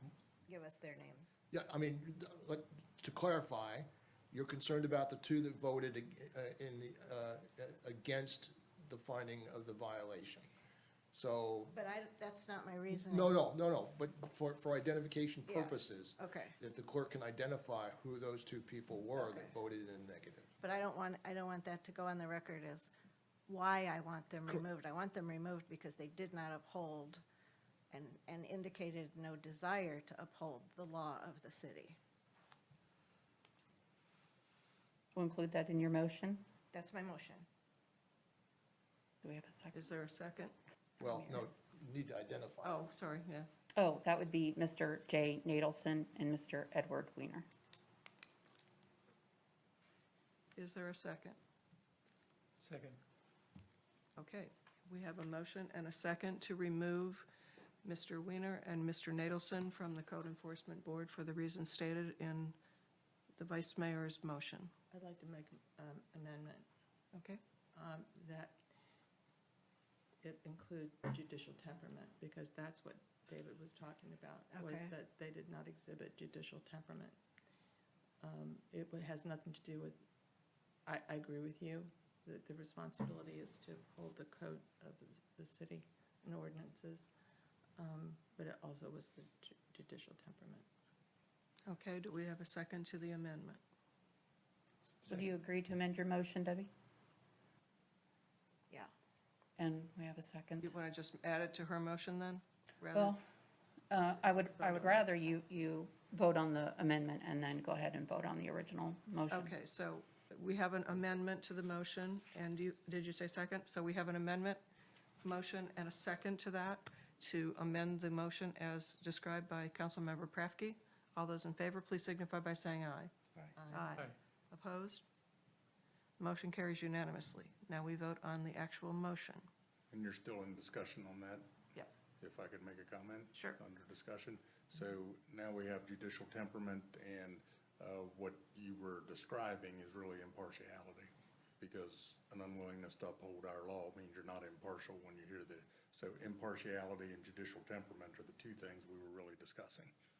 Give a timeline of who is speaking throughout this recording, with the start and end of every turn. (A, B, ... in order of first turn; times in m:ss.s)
0:00.5-0:01.4 A
0:01.5-0:10.5 B
0:11.1-0:11.7 B
0:11.7-0:13.3 A
0:12.9-0:20.6 B
0:15.5-0:16.6 A
0:19.2-0:19.5 A
0:20.6-0:22.9 A
0:23.5-0:27.2 A
0:27.9-0:32.0 A
0:35.1-0:36.5 C
0:36.7-0:37.4 A
0:39.2-0:39.8 C
0:39.7-0:40.5 D
0:41.0-0:42.8 B
0:42.6-0:43.5 D
0:43.8-0:47.5 C
0:50.6-0:51.4 D
0:54.2-0:57.3 D
0:57.8-1:02.6 D
1:03.4-1:04.7 D
1:04.9-1:06.7 E
1:07.1-1:07.4 D
1:07.7-1:08.6 E
1:10.2-1:17.2 E
1:14.5-1:14.9 A
1:18.2-1:20.0 E
1:20.8-1:27.1 E
1:27.8-1:30.6 E
1:31.7-1:33.6 D
1:35.0-1:36.7 C
1:39.6-1:40.7 C
1:40.6-1:43.2 D
1:42.9-1:43.2 C
1:43.9-1:49.5 C
1:44.6-1:45.0 D
1:49.3-1:54.6 D
1:55.2-2:03.1 D
2:03.6-2:04.1 E
2:03.7-2:05.0 D
2:06.2-2:09.5 D
2:09.9-2:11.5 F
2:12.2-2:29.9 F
2:13.3-2:13.6 D